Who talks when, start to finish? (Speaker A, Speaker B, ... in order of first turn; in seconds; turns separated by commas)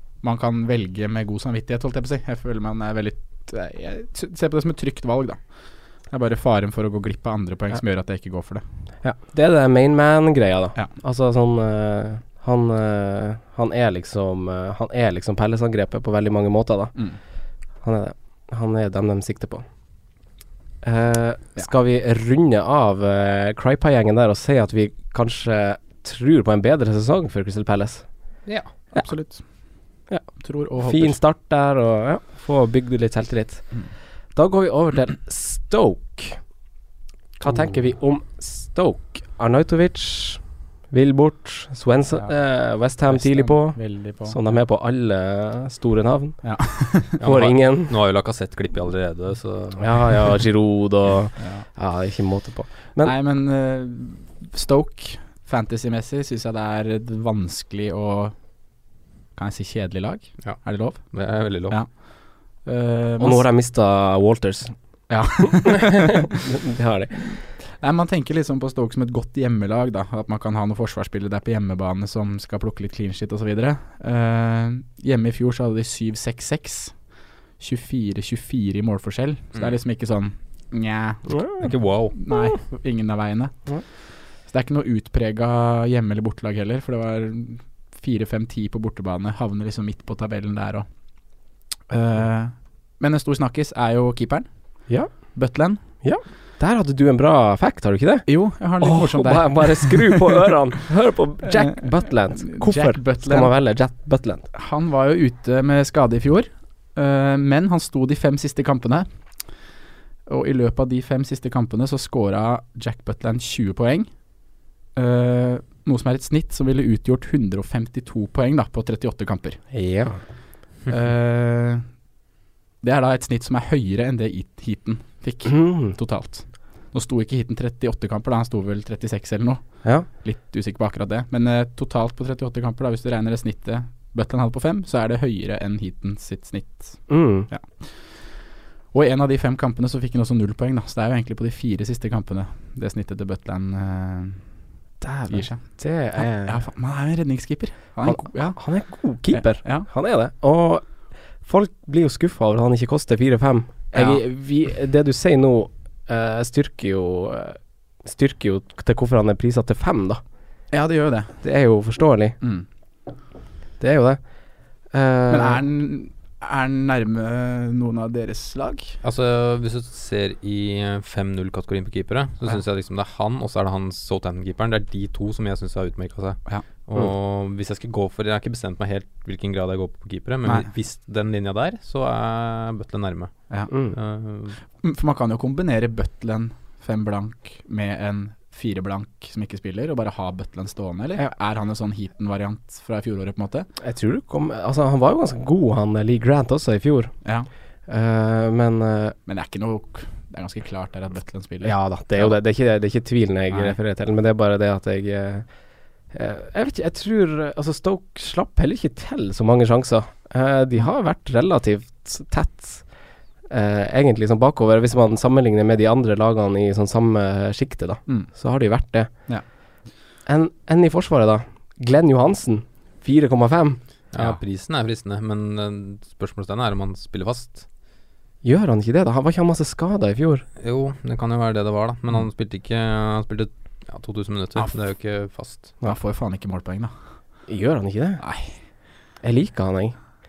Speaker A: 0.2-8.6, Speaker B: 9.0-17.0, Speaker B: 17.8-19.6, Speaker B: 20.8-28.1, Speaker A: 28.9-29.7, Speaker B: 30.1-36.4, Speaker A: 30.4-31.2, Speaker B: 37.4-46.5, Speaker A: 43.0-44.4, Speaker A: 46.4-47.2, Speaker B: 47.1-47.9, Speaker C: 47.2-50.3, Speaker B: 49.8-53.1, Speaker A: 51.4-51.6, Speaker A: 53.0-58.4, Speaker A: 59.4-63.5, Speaker C: 60.4-61.8, Speaker B: 63.2-64.7, Speaker A: 65.1-66.4, Speaker B: 65.4-67.2, Speaker A: 67.3-81.6, Speaker B: 81.3-81.7, Speaker C: 81.6-82.1, Speaker A: 82.1-90.9, Speaker A: 91.9-95.8, Speaker B: 94.9-95.4, Speaker B: 96.0-104.5, Speaker A: 98.2-100.4, Speaker A: 101.4-103.5, Speaker A: 104.5-109.1, Speaker A: 110.3-114.1, Speaker A: 115.0-119.6, Speaker B: 119.7-120.2, Speaker A: 120.9-121.9, Speaker A: 122.8-144.5, Speaker B: 125.5-125.9, Speaker B: 137.1-137.5, Speaker B: 145.0-146.6, Speaker A: 145.3-149.9, Speaker B: 148.0-160.2, Speaker A: 153.9-154.2, Speaker A: 160.7-161.4, Speaker B: 161.4-162.4, Speaker A: 162.4-162.7, Speaker B: 163.8-164.2, Speaker B: 164.8-165.6, Speaker A: 165.3-169.0, Speaker C: 169.0-184.6, Speaker B: 183.7-183.9, Speaker A: 184.8-193.7, Speaker B: 193.8-197.1, Speaker A: 197.2-197.5, Speaker B: 197.9-199.2, Speaker A: 199.2-202.3, Speaker B: 201.6-205.5, Speaker A: 203.5-203.8, Speaker B: 206.1-212.9, Speaker B: 213.5-219.1, Speaker B: 220.2-223.8, Speaker C: 224.1-227.7, Speaker B: 228.4-230.4, Speaker C: 230.6-235.7, Speaker A: 235.8-236.9, Speaker B: 237.5-238.2, Speaker A: 238.2-238.6, Speaker B: 239.2-240.0